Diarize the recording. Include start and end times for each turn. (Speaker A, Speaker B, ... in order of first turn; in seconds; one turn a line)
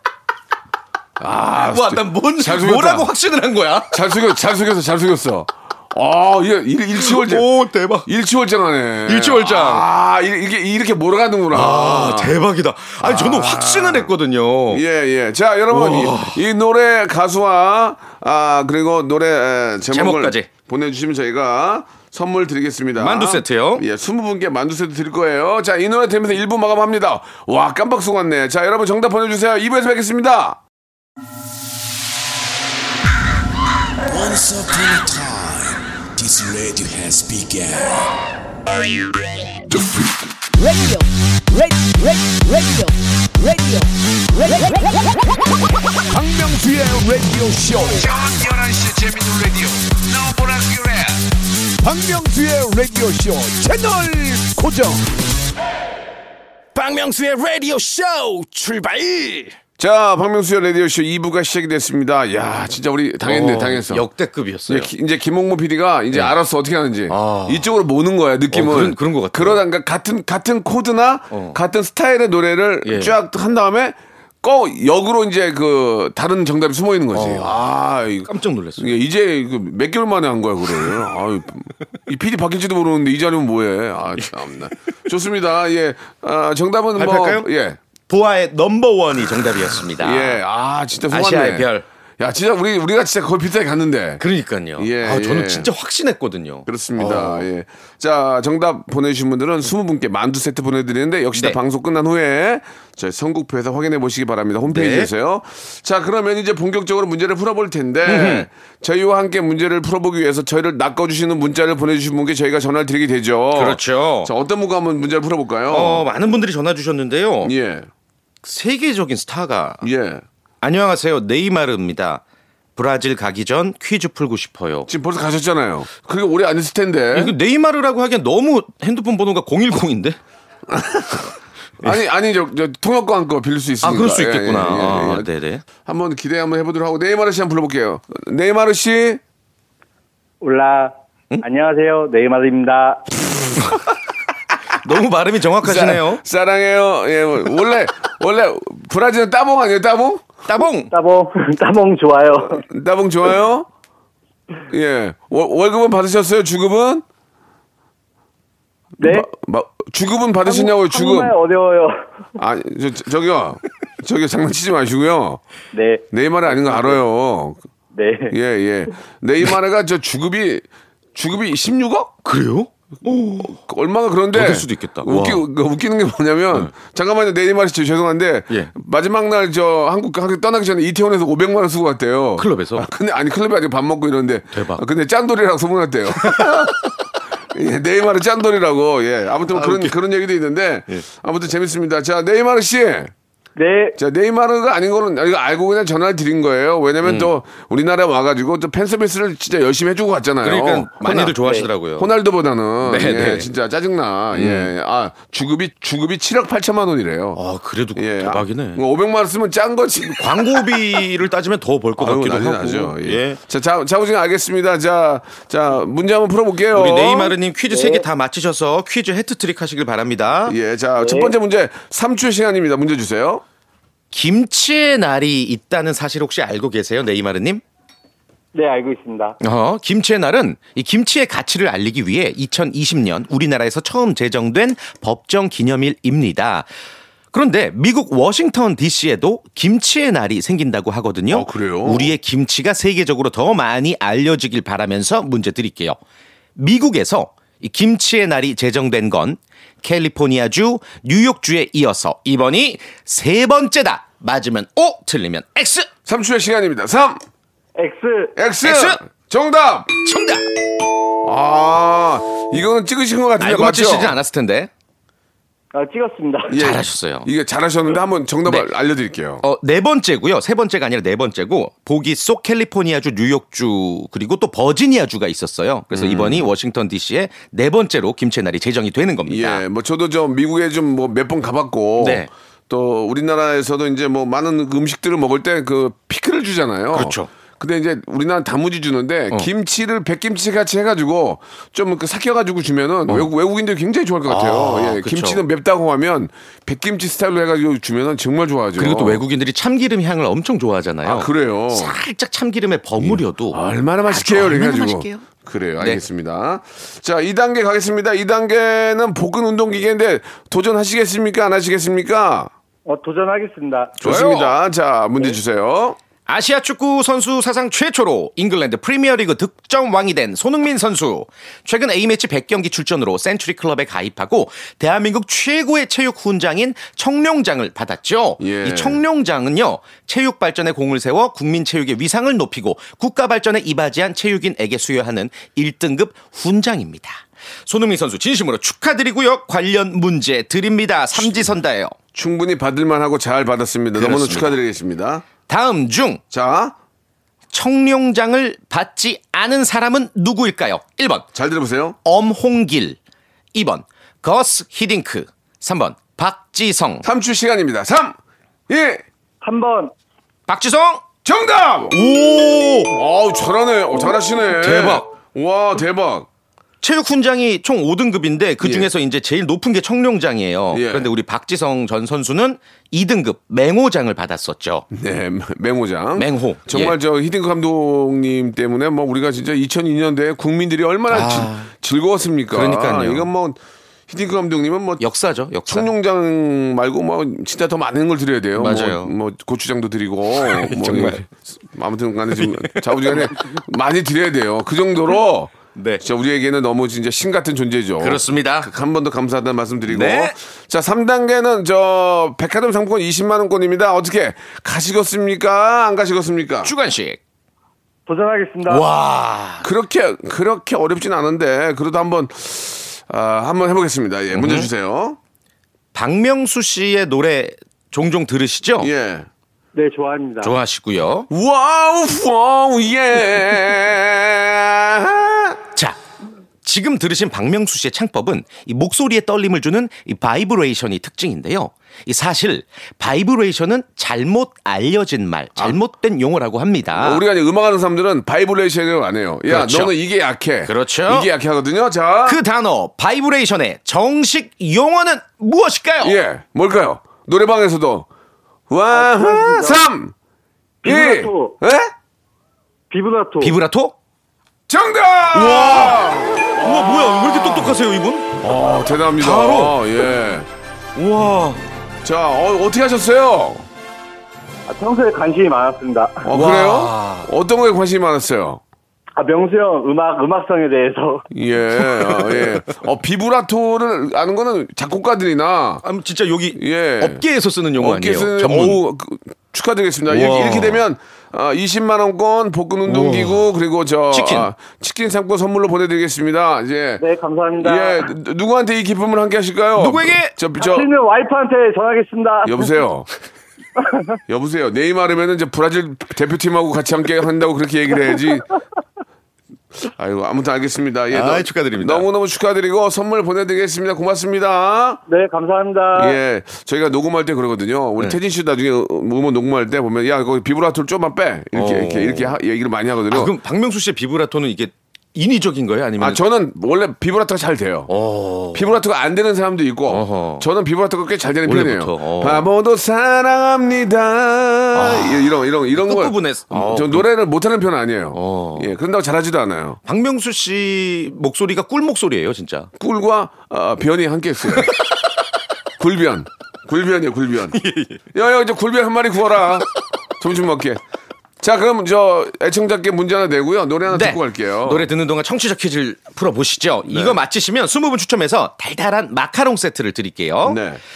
Speaker A: 1.2-3.1
Speaker B: 1.6-4.0
Speaker A: 3.9-7.5
Speaker B: 7.0-8.1
Speaker A: 8.1-12.4
Speaker B: 9.1-9.9
Speaker B: 11.5-14.8
Speaker A: 13.0-14.1
Speaker A: 14.7-30.6
Speaker B: 15.7-16.4
Speaker B: 19.9-20.5
Speaker B: 23.0-23.9
Speaker A: 34.1-37.9
Speaker A: 39.7-40.0
Speaker C: 40.6-45.1
Speaker A: 46.1-48.1
Speaker D: 48.2-49.2
Speaker A: 51.8-55.0
Speaker D: 56.7-59.6
Speaker A: 59.8-64.0
Speaker B: 63.2-64.9
Speaker A: 64.7-87.8
Speaker B: 67.1-67.7
Speaker B: 68.5-69.6
Speaker B: 71.3-71.6
Speaker B: 72.8-73.2
Speaker B: 77.1-77.6
Speaker B: 78.2-79.0
Speaker B: 87.0-87.5
Speaker B: 88.1-90.4
Speaker A: 90.0-91.7
Speaker B: 91.1-91.9
Speaker A: 92.2-94.2
Speaker B: 94.2-97.5
Speaker A: 94.8-95.7
Speaker A: 96.7-116.1
Speaker B: 104.7-105.1
Speaker B: 108.0-108.5
Speaker B: 113.5-114.3
Speaker B: 115.7-117.5
Speaker A: 117.4-117.9
Speaker B: 118.4-119.8
Speaker A: 119.8-120.2
Speaker B: 120.6-122.2
Speaker B: 122.8-124.9
Speaker A: 124.9-127.3
Speaker B: 127.1-130.2
Speaker A: 130.7-135.3
Speaker B: 133.8-135.6
Speaker A: 135.8-139.2
Speaker E: 140.4-143.1
Speaker B: 143.6-143.8
Speaker B: 144.7-146.2
Speaker A: 145.6-150.2
Speaker B: 150.5-150.9
Speaker E: 150.9-152.6
Speaker A: 152.7-153.7
Speaker A: 154.7-157.1
Speaker E: 159.0-159.3
Speaker A: 159.0-161.3
Speaker E: 160.4-162.1
Speaker A: 162.4-165.4
Speaker E: 165.7-167.0
Speaker A: 166.1-167.6
Speaker E: 167.9-168.4
Speaker A: 168.3-172.1
Speaker B: 172.2-173.6
Speaker A: 173.4-186.9
Speaker B: 174.3-175.4
Speaker B: 182.4-182.9
Speaker B: 184.5-184.8
Speaker B: 186.2-186.7
Speaker A: 187.5-193.1
Speaker B: 189.5-190.0
Speaker E: 193.6-194.0
Speaker A: 194.0-201.4
Speaker B: 197.0-197.3
Speaker B: 200.4-202.1
Speaker A: 202.0-207.4
Speaker B: 202.8-203.5
Speaker B: 204.3-204.7
Speaker B: 207.4-208.8
Speaker A: 208.0-211.0
Speaker B: 210.2-213.4
Speaker A: 212.0-217.3
Speaker B: 216.7-220.6
Speaker E: 217.7-218.1
Speaker A: 220.5-223.4
Speaker E: 221.0-221.3
Speaker B: 224.1-227.6
Speaker E: 228.5-229.4
Speaker B: 229.4-236.7
Speaker B: 237.3-246.0
Speaker A: 241.3-242.2
Speaker B: 246.6-255.9
Speaker A: 256.1-257.2
Speaker E: 257.8-258.4
Speaker A: 258.4-260.0
Speaker B: 258.6-259.0
Speaker B: 260.0-260.5
Speaker A: 261.2-264.2
Speaker B: 263.4-264.7
Speaker E: 265.7-266.6
Speaker A: 266.5-269.4
Speaker B: 266.5-267.3
Speaker B: 269.4-279.6
Speaker A: 275.9-276.5
Speaker A: 279.3-299.2
Speaker B: 282.0-282.3
Speaker B: 286.9-287.3
Speaker B: 294.3-295.4
Speaker B: 298.8-305.3
Speaker A: 301.1-301.9
Speaker A: 303.0-312.5
Speaker E: 312.9-314.0
Speaker B: 314.0-314.6
Speaker A: 314.0-316.0
Speaker B: 316.3-341.9
Speaker A: 328.4-329.0
Speaker A: 342.1-345.2
Speaker B: 344.0-344.6
Speaker B: 345.5-346.2
Speaker A: 346.3-346.8
Speaker B: 347.5-351.3
Speaker A: 351.3-352.0
Speaker B: 352.1-353.0
Speaker B: 353.5-357.1
Speaker A: 357.0-358.2
Speaker A: 358.7-359.0
Speaker E: 359.4-359.9
Speaker B: 360.5-361.1
Speaker A: 361.2-362.0
Speaker B: 361.9-362.9
Speaker A: 362.9-366.3
Speaker B: 364.6-365.1
Speaker B: 366.8-374.9
Speaker A: 368.6-368.9
Speaker A: 370.7-371.1
Speaker A: 374.9-385.0
Speaker B: 376.2-377.0
Speaker B: 381.1-381.7
Speaker B: 382.5-383.3
Speaker B: 385.0-385.9
Speaker A: 385.7-406.7
Speaker B: 388.6-389.1
Speaker B: 390.4-391.2
Speaker B: 392.4-393.3
Speaker B: 395.8-396.0
Speaker B: 398.0-398.7
Speaker B: 399.9-400.4
Speaker B: 406.6-407.2
Speaker E: 408.1-408.9
Speaker B: 408.7-409.7
Speaker A: 409.6-415.2
Speaker B: 414.3-414.7
Speaker B: 415.9-418.9
Speaker A: 418.8-419.3
Speaker E: 419.7-420.6
Speaker B: 420.4-421.3
Speaker A: 421.3-425.6
Speaker B: 426.6-437.2
Speaker A: 437.0-442.4
Speaker B: 439.5-439.9
Speaker B: 440.6-441.3
Speaker B: 442.3-446.2
Speaker A: 446.0-448.1
Speaker A: 448.7-450.1
Speaker E: 448.9-449.8
Speaker E: 450.8-451.6
Speaker A: 450.8-451.9
Speaker E: 452.9-453.6
Speaker B: 453.4-454.0
Speaker A: 454.7-457.8
Speaker B: 455.3-458.4
Speaker A: 458.4-460.5
Speaker B: 459.2-459.8
Speaker B: 461.0-461.6
Speaker A: 462.0-463.7
Speaker E: 464.7-466.3
Speaker A: 466.2-468.6
Speaker B: 466.3-467.3
Speaker E: 469.2-471.2
Speaker A: 471.3-475.8
Speaker B: 471.8-472.6
Speaker B: 475.8-478.8
Speaker A: 476.6-477.2
Speaker A: 477.8-487.1
Speaker B: 480.1-480.8
Speaker B: 482.9-483.5
Speaker B: 484.1-484.5
Speaker E: 487.0-488.1
Speaker A: 487.6-490.9
Speaker B: 489.8-490.4
Speaker E: 490.6-492.7
Speaker A: 492.4-493.1
Speaker E: 493.8-494.2
Speaker A: 494.3-498.5
Speaker A: 499.8-505.0
Speaker B: 501.1-502.1
Speaker E: 505.1-506.2
Speaker A: 506.0-513.3
Speaker B: 511.5-512.4
Speaker B: 513.1-516.2
Speaker A: 516.0-517.9
Speaker B: 517.9-518.8
Speaker A: 518.5-529.8
Speaker B: 519.9-520.5
Speaker B: 521.5-522.5
Speaker B: 524.7-527.1
Speaker B: 528.1-528.7
Speaker B: 529.9-532.7
Speaker A: 532.8-534.8
Speaker A: 535.8-537.6
Speaker B: 537.5-538.0
Speaker A: 538.1-539.7
Speaker A: 540.2-540.8
Speaker A: 541.4-544.9
Speaker B: 543.9-550.6
Speaker A: 546.9-547.2
Speaker A: 550.4-550.8